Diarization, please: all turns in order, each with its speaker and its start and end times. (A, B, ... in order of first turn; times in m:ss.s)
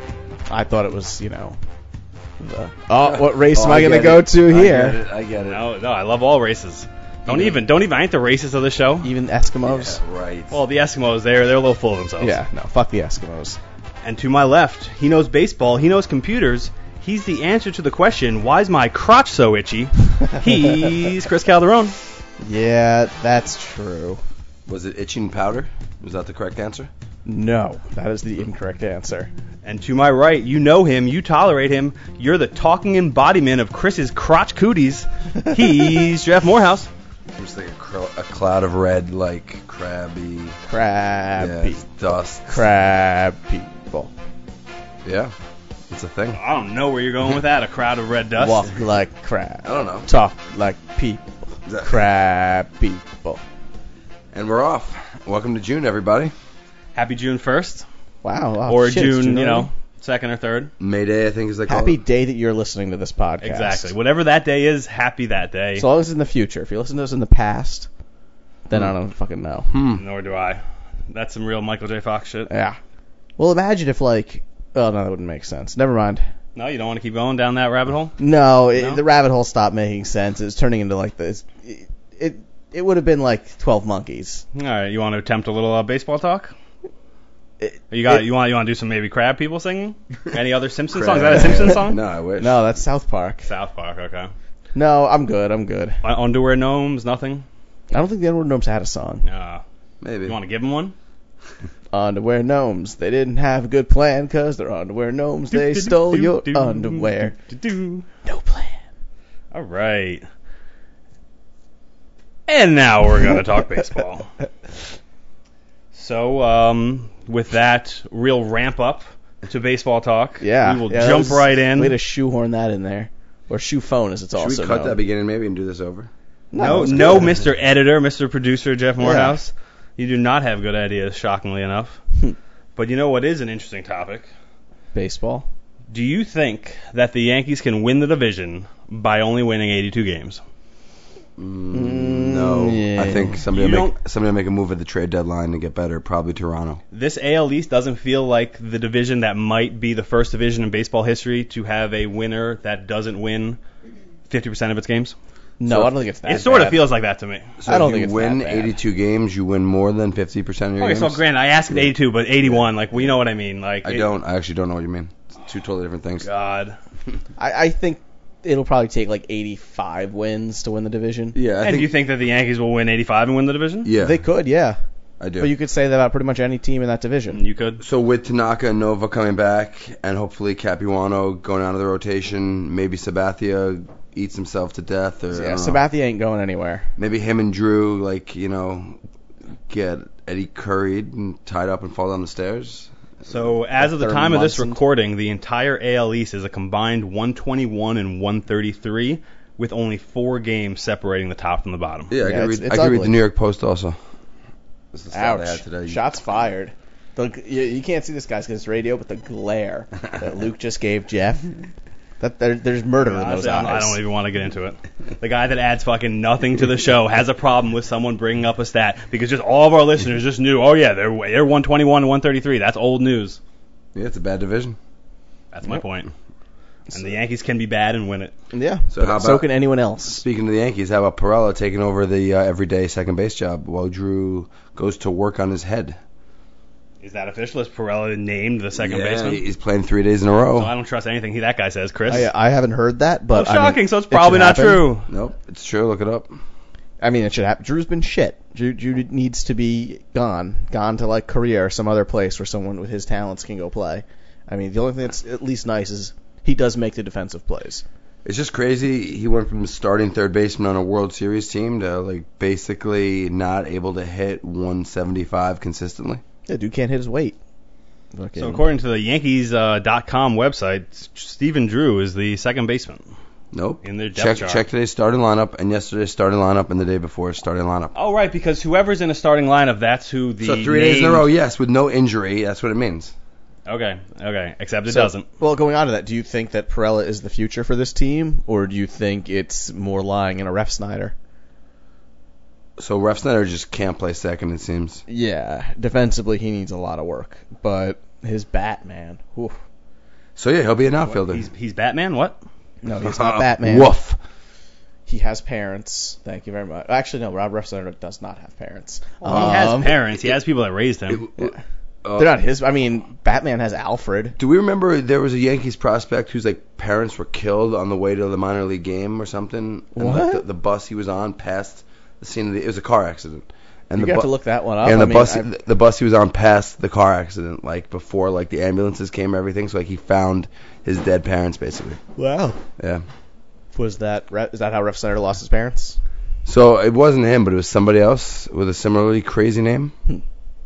0:00.5-0:01.6 A
0:02.4-0:05.0 A
0:03.0-0:05.6 B
0:05.4-0:09.1 C
0:07.3-0:07.5 B
0:09.0-0:10.0 A
0:09.6-0:10.6 B
0:10.5-0:12.4 C
0:12.2-0:13.6 A
0:14.0-0:22.0 C
0:22.4-0:24.2 A
0:24.7-0:26.9 B
0:27.2-0:29.3 A
0:29.6-0:36.9 C
0:37.3-0:40.6 B
0:40.6-0:41.8 A
0:41.4-0:42.6 B
0:42.4-0:44.1 A
0:45.0-0:45.3 B
0:45.9-0:46.4 B
0:46.3-0:48.7 C
0:48.4-0:53.4 A
0:49.6-0:50.1 B
0:51.7-0:52.0 B
0:54.3-0:56.3 B
0:56.9-0:57.8 C
0:58.2-0:59.7 A
0:58.6-1:00.7 C
1:00.8-1:02.0 B
1:01.7-1:03.9 A
1:03.4-1:05.8 C
1:05.8-1:07.9 A
1:08.7-1:09.7 A
1:09.7-1:10.0 B
1:09.9-1:12.5 C
1:12.5-1:12.8 A
1:13.4-1:16.2 A
1:16.5-1:18.2 C
1:18.2-1:24.4 A
1:18.7-1:19.0 C
1:24.5-1:26.5 C
1:27.6-1:28.2 A
1:27.9-1:32.0 C
1:30.9-1:32.6 B
1:32.4-1:33.5 A
1:33.4-1:34.3 C
1:34.7-1:36.0 A
1:36.0-1:37.4 C
1:37.9-1:39.2 A
1:39.2-1:39.6 C
1:40.0-1:40.4 B
1:40.2-1:40.9 C
1:41.9-1:47.4 A
1:45.5-1:48.0 C
1:48.2-1:48.8 A
1:49.5-1:50.2 C
1:52.5-1:54.3 C
1:55.9-2:02.0 C
2:00.4-2:05.0 A
2:04.3-2:06.1 B
2:06.5-2:07.3 A
2:06.6-2:12.0 C
2:06.9-2:07.4 B
2:09.0-2:09.4 A
2:12.8-2:14.3 C
2:14.9-2:15.5 A
2:15.9-2:20.4 C
2:21.4-2:26.8 B
2:21.7-2:23.4 A
2:23.5-2:23.9 C
2:26.9-2:33.6 C
2:34.3-2:35.2 C
2:35.6-2:36.8 A
2:35.6-2:35.9 B
2:36.2-2:37.5 C
2:37.6-2:41.9 B
2:37.6-2:38.8 A
2:40.8-2:44.1 C
2:42.4-2:42.7 B
2:43.8-2:46.3 B
2:46.2-2:46.8 C
2:47.4-2:51.3 A
2:51.3-2:51.9 B
2:51.6-2:53.9 C
2:53.8-2:54.2 B
2:54.0-2:54.8 A
2:55.2-2:55.5 B
2:55.4-2:57.4 A
2:57.3-2:57.8 C
2:57.8-3:05.8 B
3:05.3-3:06.9 A
3:07.0-3:09.0 B
3:09.7-3:12.9 B
3:13.2-3:22.1 C
3:13.8-3:14.8 A
3:22.1-3:24.0 B
3:22.2-3:23.2 A
3:24.9-3:26.0 B
3:25.1-3:31.5 A
3:32.2-3:34.0 A
3:33.0-3:43.4 C
3:43.9-3:44.8 B
3:45.5-3:46.1 C
3:46.9-3:48.3 C
3:48.5-3:50.2 A
3:48.9-3:49.5 B
3:50.1-3:56.0 B
3:57.0-3:59.4 C
3:58.8-4:00.7 B
4:00.5-4:02.3 C
4:02.1-4:04.9 A
4:03.3-4:05.1 C
4:05.1-4:06.3 B
4:07.0-4:17.8 A
4:18.2-4:26.2 B
4:26.5-4:27.4 A
4:28.1-4:28.6 A
4:28.4-4:33.0 C
4:33.5-4:37.9 B
4:33.8-4:34.6 C
4:37.9-4:41.2 C
4:40.4-4:43.1 B
4:43.6-4:45.2 C
4:44.9-4:51.1 A
4:52.8-4:55.0 B
4:55.1-4:59.5 A
5:00.4-5:01.4 B
5:01.2-5:02.4 C
5:02.8-5:03.9 A
5:03.0-5:04.2 B
5:05.1-5:10.0 A
5:09.2-5:11.2 C
5:11.1-5:12.3 B
5:12.2-5:14.4 A
5:14.4-5:24.3 B
5:20.0-5:20.4 A
5:24.0-5:25.5 A
5:24.8-5:32.0 B
5:32.2-5:32.6 A
5:32.8-5:33.0 B
5:33.7-5:36.0 A
5:36.4-5:39.9 B